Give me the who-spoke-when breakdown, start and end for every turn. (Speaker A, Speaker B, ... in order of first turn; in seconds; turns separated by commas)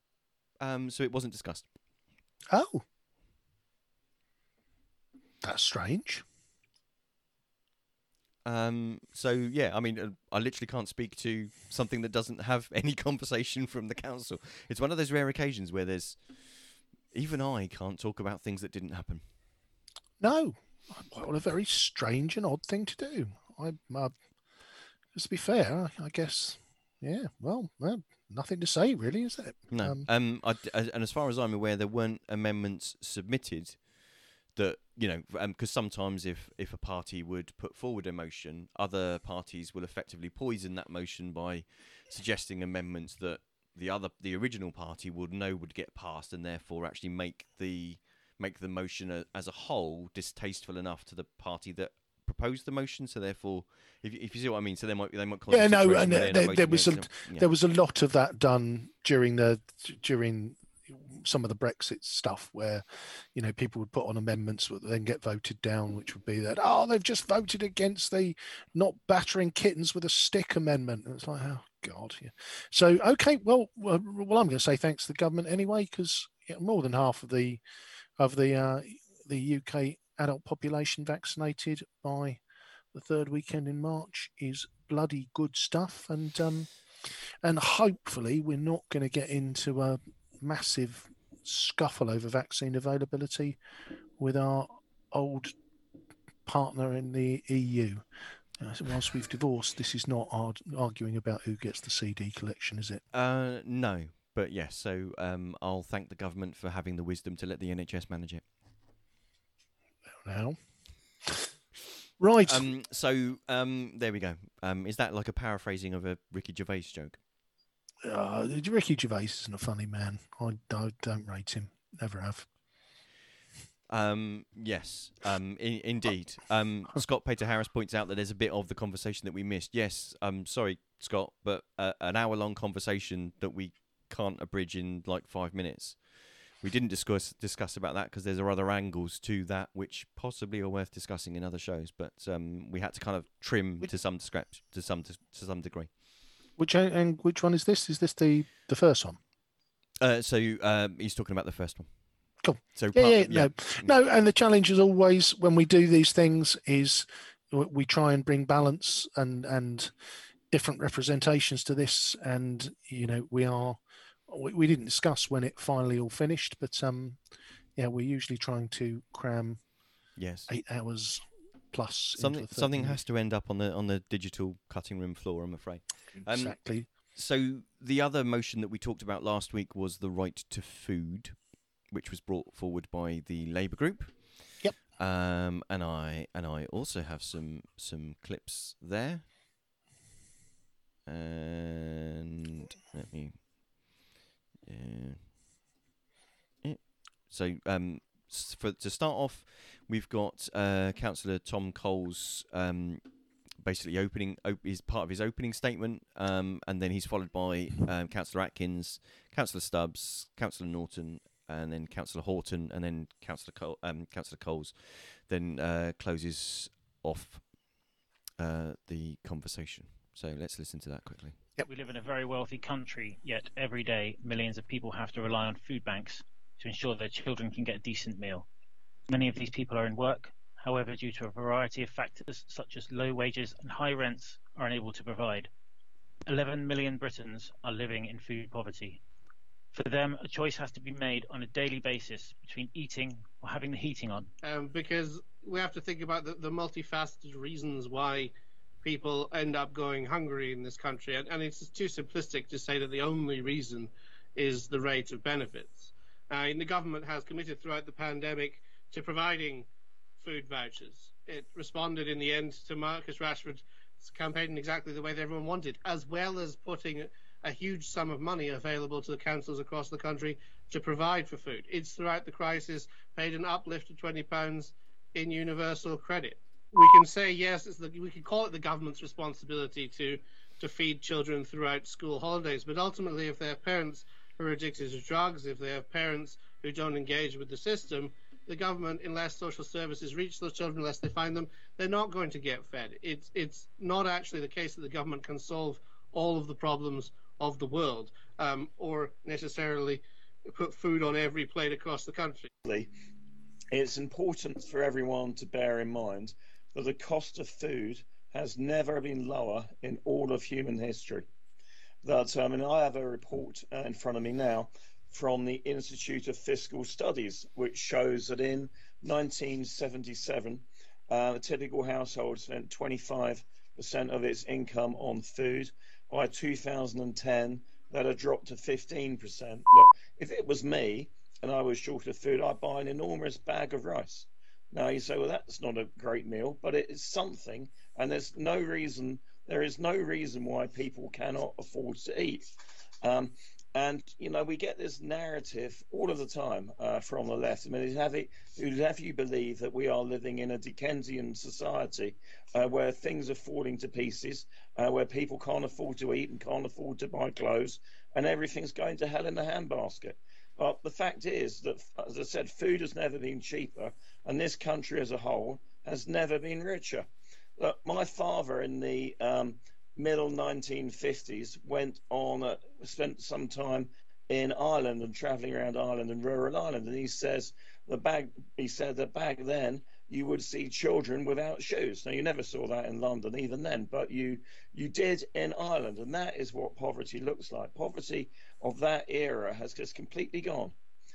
Speaker A: 0.6-1.6, Speaker B: 2.5-2.8, Speaker B: 5.4-6.2, Speaker A: 8.4-19.2, Speaker B: 20.2-24.1, Speaker B: 25.1-30.1, Speaker A: 29.7-33.9, Speaker A: 34.5-57.5, Speaker B: 55.5-77.6, Speaker B: 78.2-82.4, Speaker B: 82.9-86.7, Speaker B: 87.4-93.6, Speaker B: 94.2-95.5, Speaker B: 96.5-98.0, Speaker B: 98.6-103.0, Speaker A: 103.1-108.4, Speaker B: 110.2-110.6, Speaker B: 112.2-112.7, Speaker A: 112.4-117.2, Speaker B: 118.0-122.5, Speaker A: 123.9-145.9, Speaker B: 146.6-149.2, Speaker A: 150.0-151.9, Speaker B: 152.4-159.9, Speaker A: 152.7-153.9, Speaker B: 160.5-167.2, Speaker B: 167.8-169.6, Speaker A: 170.2-170.5, Speaker B: 170.5-173.0, Speaker A: 172.2-189.2, Speaker B: 176.2-176.9, Speaker A: 191.1-193.4, Speaker A: 194.7-195.2, Speaker A: 196.6-203.0, Speaker A: 203.6-217.4, Speaker A: 218.4-221.3, Speaker C: 221.7-228.5, Speaker C: 229.1-235.5, Speaker C: 236.3-239.0, Speaker C: 239.7-244.3, Speaker D: 244.4-259.6, Speaker D: 260.2-302.5, Speaker E: 302.6-302.9, Speaker E: 303.7-311.3, Speaker E: 312.0-342.4, Speaker E: 343.0-390.7